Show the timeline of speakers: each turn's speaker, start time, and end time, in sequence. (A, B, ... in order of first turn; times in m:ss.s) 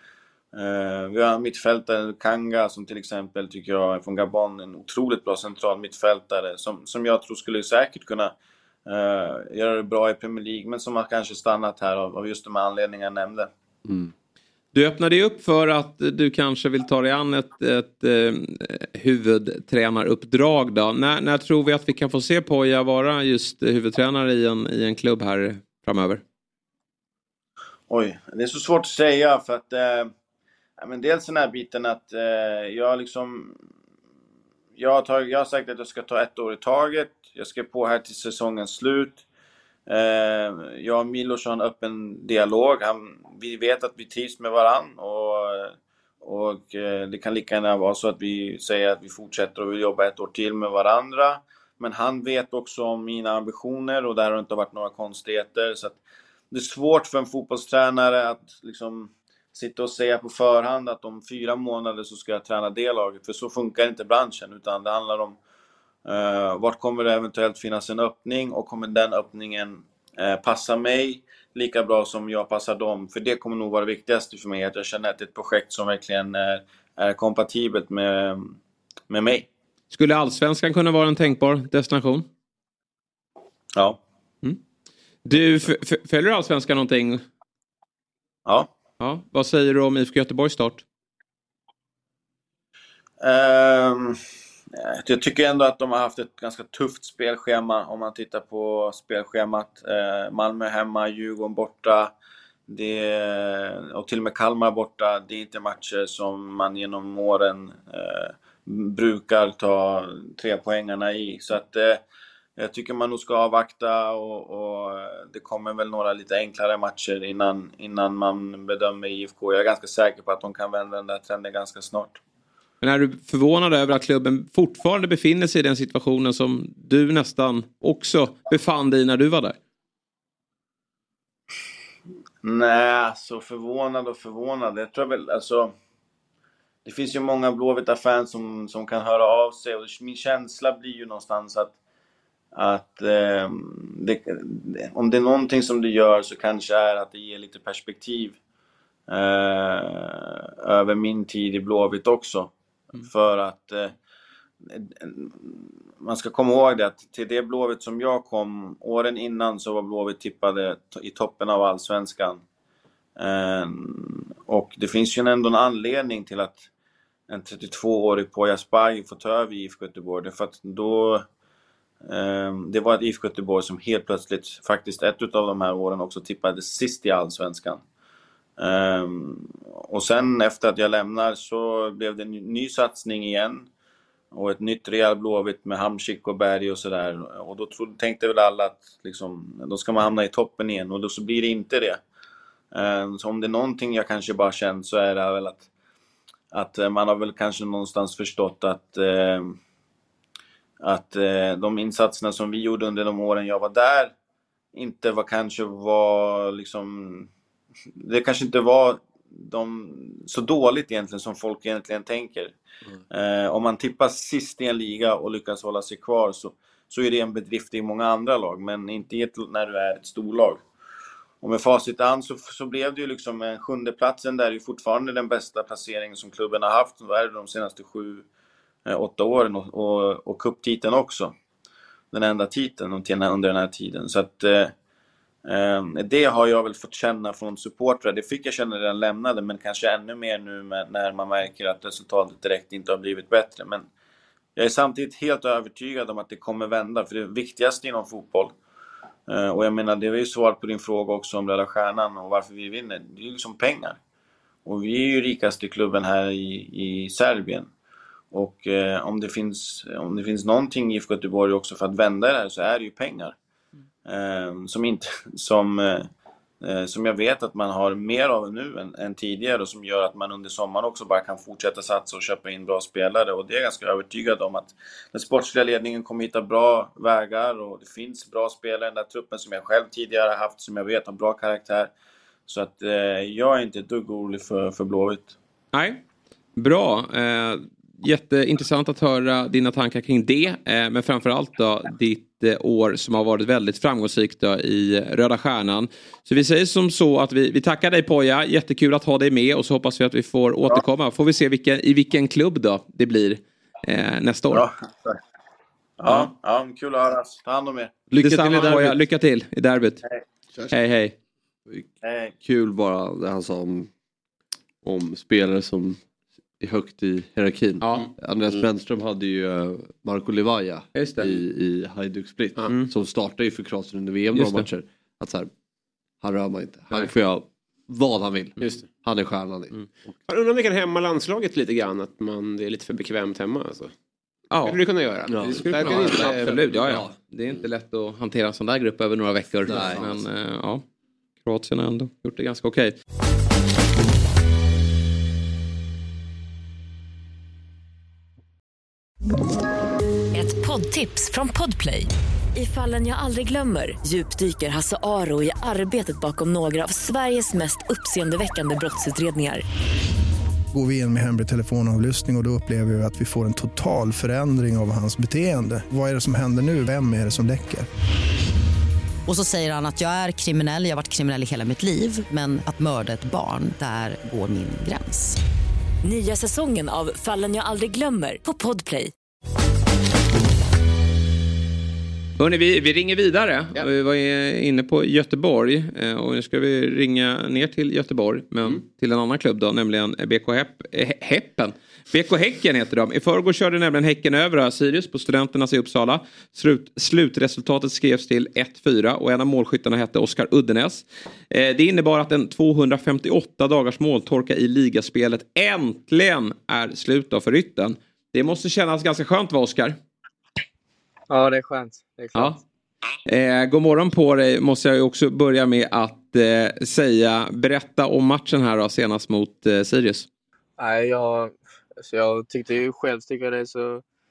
0:00.5-0:08.3 A
0:08.8-0:13.5 A
0:13.8-0:14.1 B
0:14.7-0:26.2 C
0:27.9-0:30.1 A
0:30.8-0:33.6 A
0:34.8-0:39.2 A
0:39.9-0:56.0 A
0:56.5-1:05.4 A
1:06.0-1:18.6 A
1:19.1-1:19.5 A
1:19.9-1:22.3 C
1:25.2-1:27.2 C
1:29.0-1:30.8 C
1:33.2-1:34.2 A
1:34.8-1:42.1 A
1:42.7-1:52.0 A
1:52.6-2:02.2 A
2:02.8-2:09.6 C
2:12.4-2:15.7 A
2:16.8-2:21.7 A
2:22.5-2:28.4 A
2:29.1-2:33.9 A
2:34.7-2:42.4 A
2:43.2-2:46.6 A
2:47.3-2:51.2 A
2:52.0-2:57.8 A
2:58.6-3:03.7 A
3:04.3-3:12.0 A
3:12.7-3:15.6 A
3:16.5-3:19.6 A
3:20.8-3:24.1 A
3:24.7-3:27.3 A
3:28.0-3:32.6 A
3:33.1-3:40.6 A
3:41.4-3:48.2 A
3:48.8-3:51.3 A
3:52.1-3:54.7 A
3:55.4-4:03.9 A
4:04.6-4:08.6 A
4:09.3-4:14.0 A
4:14.6-4:17.7 A
4:18.3-4:23.4 A
4:24.0-4:26.1 A
4:26.6-4:41.9 A
4:42.5-4:45.3 A
4:45.7-4:46.0 C
4:46.6-5:04.6 C
5:04.5-5:05.2 A
5:06.0-5:07.9 A
5:08.1-5:09.0 B
5:08.2-5:10.0 C
5:10.7-5:11.1 C
5:12.0-5:12.3 A
5:12.4-5:13.9 B
5:14.8-5:16.0 B
5:16.6-5:25.5 B
5:17.8-5:18.1 C
5:20.9-5:21.3 C
5:24.4-5:24.7 C
5:26.2-5:30.1 B
5:28.6-5:28.8 D
5:30.3-5:33.9 D
5:34.5-5:34.8 C
5:34.6-5:36.6 D
5:35.3-5:37.5 B
5:35.4-5:40.8 C
5:39.7-5:40.2 B
5:41.4-5:42.9 C
5:50.3-5:59.6 E
6:00.7-6:07.9 F
6:09.3-6:15.4 G
6:16.0-6:19.1 E
6:22.4-6:50.0 C
6:51.3-6:52.6 H
6:53.2-7:00.3 C
7:00.8-7:04.0 H